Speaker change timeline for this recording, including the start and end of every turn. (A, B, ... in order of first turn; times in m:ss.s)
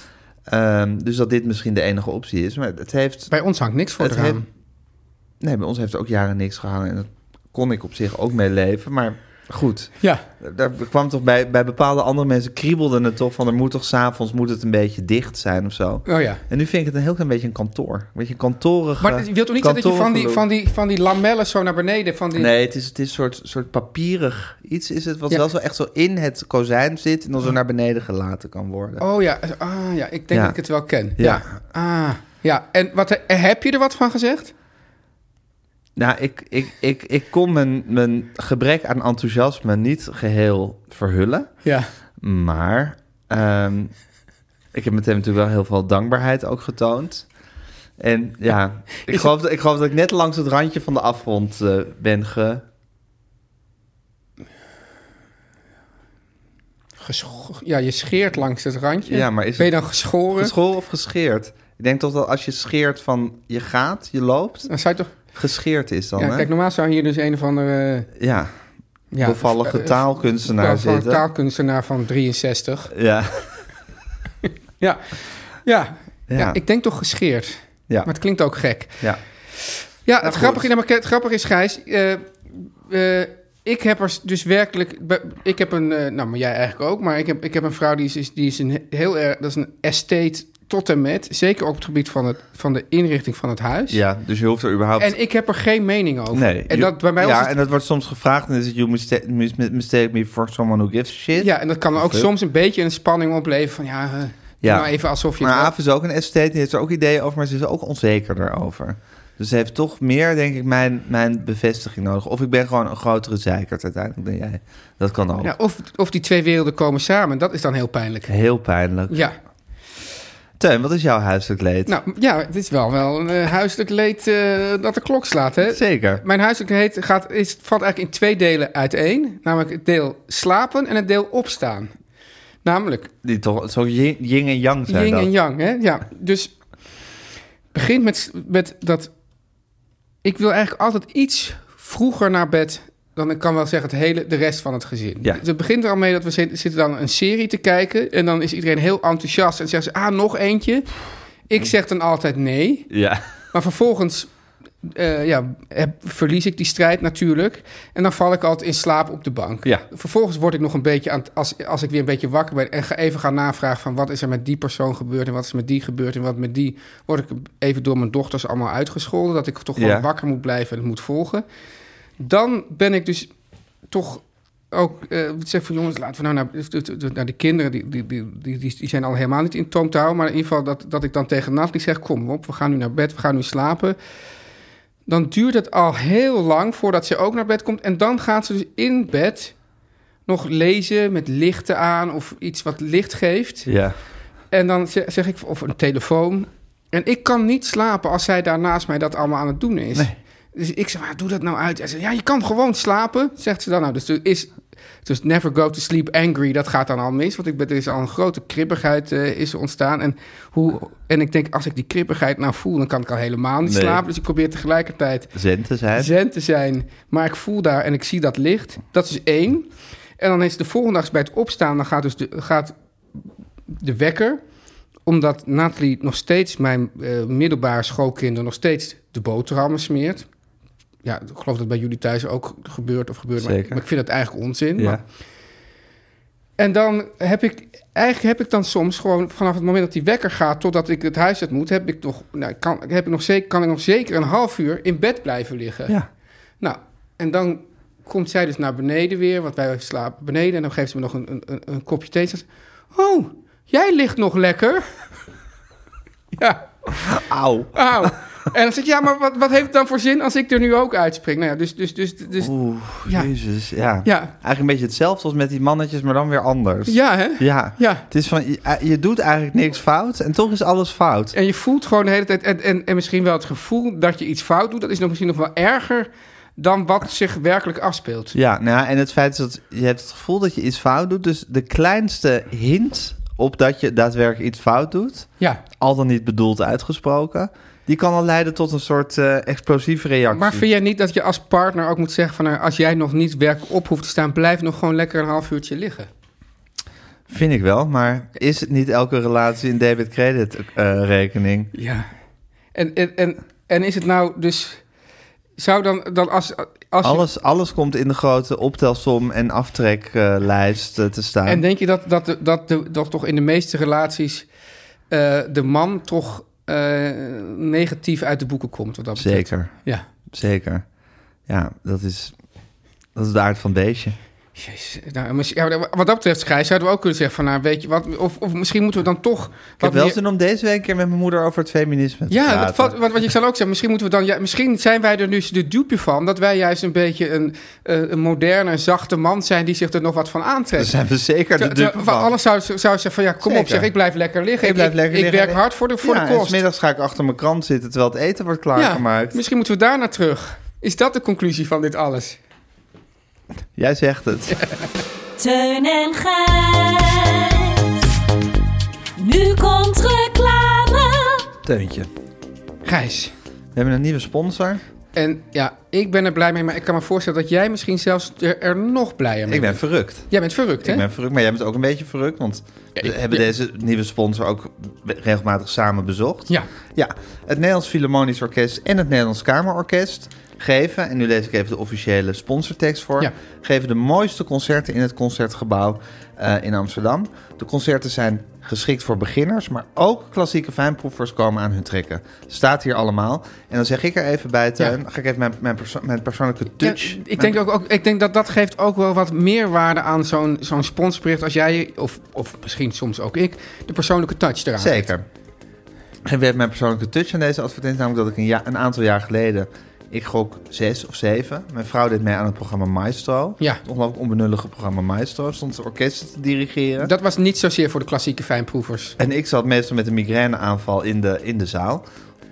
0:00.5-0:03.3 A
0:03.3-0:04.4 B
0:04.0-0:04.4 A
0:05.4-0:20.4 A
0:16.0-0:16.4 B
0:19.0-0:22.5 B
0:22.4-0:29.0 A
0:29.0-0:34.5 B
0:30.3-0:30.6 A
0:31.2-0:31.5 A
0:36.0-0:41.5 A
0:41.6-0:41.9 B
0:42.2-0:43.9 A
0:44.7-0:47.2 A
0:48.0-0:52.6 A
0:57.0-1:00.5 B
0:59.0-0:59.7 A
1:00.3-1:04.7 A
1:04.7-1:05.1 B
1:05.3-1:06.5 A
1:06.2-1:08.1 B
1:08.2-1:08.5 A
1:09.1-1:12.9 B
1:09.2-1:11.2 A
1:12.9-1:13.6 A
1:14.4-1:19.0 B
1:16.3-1:16.6 A
1:20.0-1:34.0 B
1:20.2-1:20.7 A
1:33.9-1:35.1 A
1:35.0-1:37.5 B
1:36.3-1:42.3 A
1:41.3-1:45.7 B
1:44.6-1:55.5 A
1:55.4-1:58.3 B
1:58.3-1:59.2 A
1:59.1-1:59.3 B
2:00.6-2:01.9 A
2:01.8-2:11.9 B
2:05.6-2:06.2 A
2:12.6-2:13.1 B
2:13.2-2:15.3 A
2:14.9-2:16.5 B
2:17.7-2:19.1 B
2:20.2-2:30.9 B
2:31.5-2:32.9 B
2:32.9-2:33.2 A
2:33.5-2:34.3 B
2:34.8-2:51.4 B
2:49.8-2:50.1 A
2:52.2-2:53.3 B
2:53.9-3:04.0 B
3:05.1-3:09.5 B
3:10.3-3:13.7 B
3:13.6-3:14.0 A
3:14.5-3:24.5 B
3:25.0-3:35.3 B
3:33.6-3:34.0 A
3:35.3-3:36.1 A
3:35.9-3:42.7 B
3:43.7-3:44.4 B
3:45.0-3:50.3 B
3:51.0-3:55.0 B
3:53.4-3:53.8 A
3:54.8-3:55.0 A
3:56.6-4:06.0 B
4:06.6-4:14.9 B
4:16.4-4:16.6 B
4:16.9-4:18.1 A
4:17.7-4:22.5 B
4:22.4-4:31.4 A
4:23.0-4:23.3 B
4:24.0-4:24.3 B
4:26.9-4:28.0 B
4:31.3-4:38.3 B
4:38.3-4:50.6 A
4:50.3-4:56.1 B
4:57.3-5:01.7 A
5:01.7-5:02.1 B
5:02.7-5:04.8 B
5:05.6-5:07.2 B
5:07.0-5:11.6 A
5:11.4-5:14.5 B
5:15.1-5:20.0 B
5:19.2-5:19.7 A
5:20.3-5:20.8 A
5:21.5-5:22.3 A
5:23.1-5:24.2 A
5:24.6-5:30.2 B
5:29.8-5:33.0 A
5:32.3-5:40.9 B
5:40.8-5:42.3 A
5:41.6-5:46.6 B
5:43.4-5:43.9 A
5:44.6-5:49.4 A
5:48.7-5:52.4 B
5:53.8-5:54.6 A
5:55.4-5:58.1 C
5:59.2-6:01.5 C
6:01.6-6:02.1 A
6:02.8-6:03.3 B
6:03.7-6:04.8 A
6:05.1-6:11.0 B
6:09.5-6:10.3 A
6:10.8-6:37.6 A
6:13.0-6:13.4 B
6:36.8-6:45.1 B
6:44.8-6:45.2 A
6:46.2-6:57.1 A
6:57.0-6:59.2 B
6:59.2-7:02.0 A